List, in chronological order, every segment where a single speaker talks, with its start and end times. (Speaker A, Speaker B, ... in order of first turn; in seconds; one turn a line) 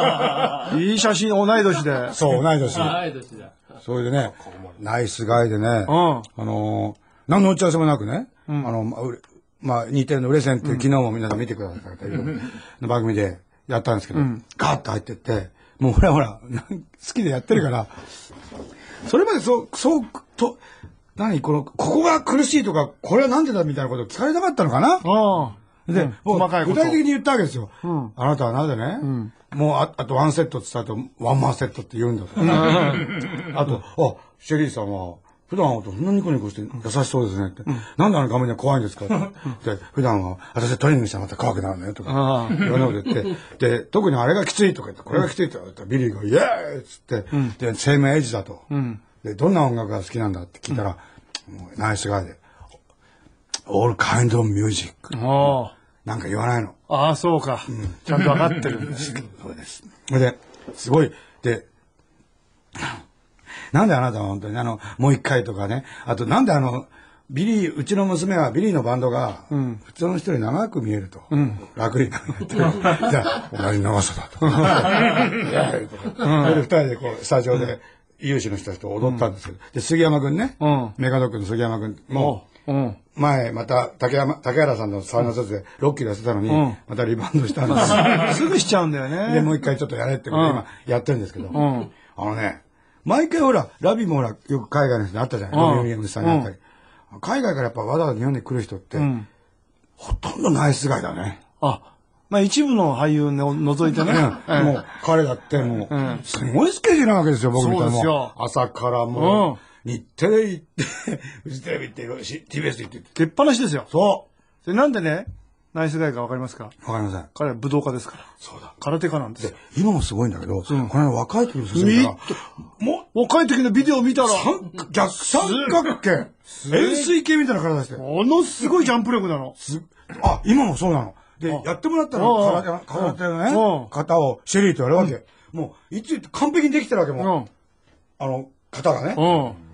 Speaker A: 0.4-2.2
Speaker B: 2.1-3.2
Speaker B: 3.8-17.9
Speaker A: 5.9-6.3
Speaker A: 8.5-8.7
Speaker A: 10.6-10.9
Speaker A: 14.1-14.4
Speaker B: 19.0-20.6
Speaker B: 21.2-25.1
Speaker A: 25.0-27.0
Speaker B: 25.9-48.7
Speaker A: 27.8-28.1
Speaker A: 29.0-29.3
Speaker A: 32.4-33.2
Speaker A: 42.1-42.7
Speaker A: 48.7-49.0
Speaker B: 49.2-52.4
Speaker B: 53.7-55.5
Speaker A: 55.1-55.7
Speaker B: 56.0-56.8
Speaker A: 56.9-59.1
Speaker B: 57.7-58.0
Speaker B: 59.0-61.7
Speaker B: 63.7-82.4
Speaker A: 69.5-69.8
Speaker A: 71.3-71.6
Speaker A: 74.4-74.8
Speaker A: 76.2-76.7
Speaker A: 80.6-81.0
Speaker A: 82.1-83.0
Speaker B: 83.2-88.5
Speaker A: 86.5-86.8
Speaker A: 87.7-89.5
Speaker B: 89.2-96.6
Speaker A: 90.3-90.6
Speaker A: 91.5-91.9
Speaker A: 95.5-96.5
Speaker B: 97.1-99.1
Speaker A: 99.0-99.3
Speaker B: 100.0-101.4
Speaker A: 101.6-104.8
Speaker B: 104.0-113.1
Speaker A: 105.9-106.2
Speaker A: 107.5-108.3
Speaker A: 109.1-109.6
Speaker A: 113.2-113.9
Speaker B: 113.9-114.3
Speaker A: 114.7-116.7
Speaker B: 116.8-117.3
Speaker A: 117.3-118.3
Speaker B: 118.4-118.7
Speaker A: 118.8-119.5
Speaker B: 119.4-123.1
Speaker A: 120.7-120.9
Speaker A: 121.7-122.4
Speaker A: 123.1-124.5
Speaker B: 124.2-128.0
Speaker A: 125.4-125.8
Speaker A: 126.5-127.1
Speaker A: 128.0-129.6
Speaker B: 129.6-137.3
Speaker A: 131.5-133.9
Speaker A: 137.2-137.5
Speaker B: 138.2-139.3
Speaker A: 139.1-139.6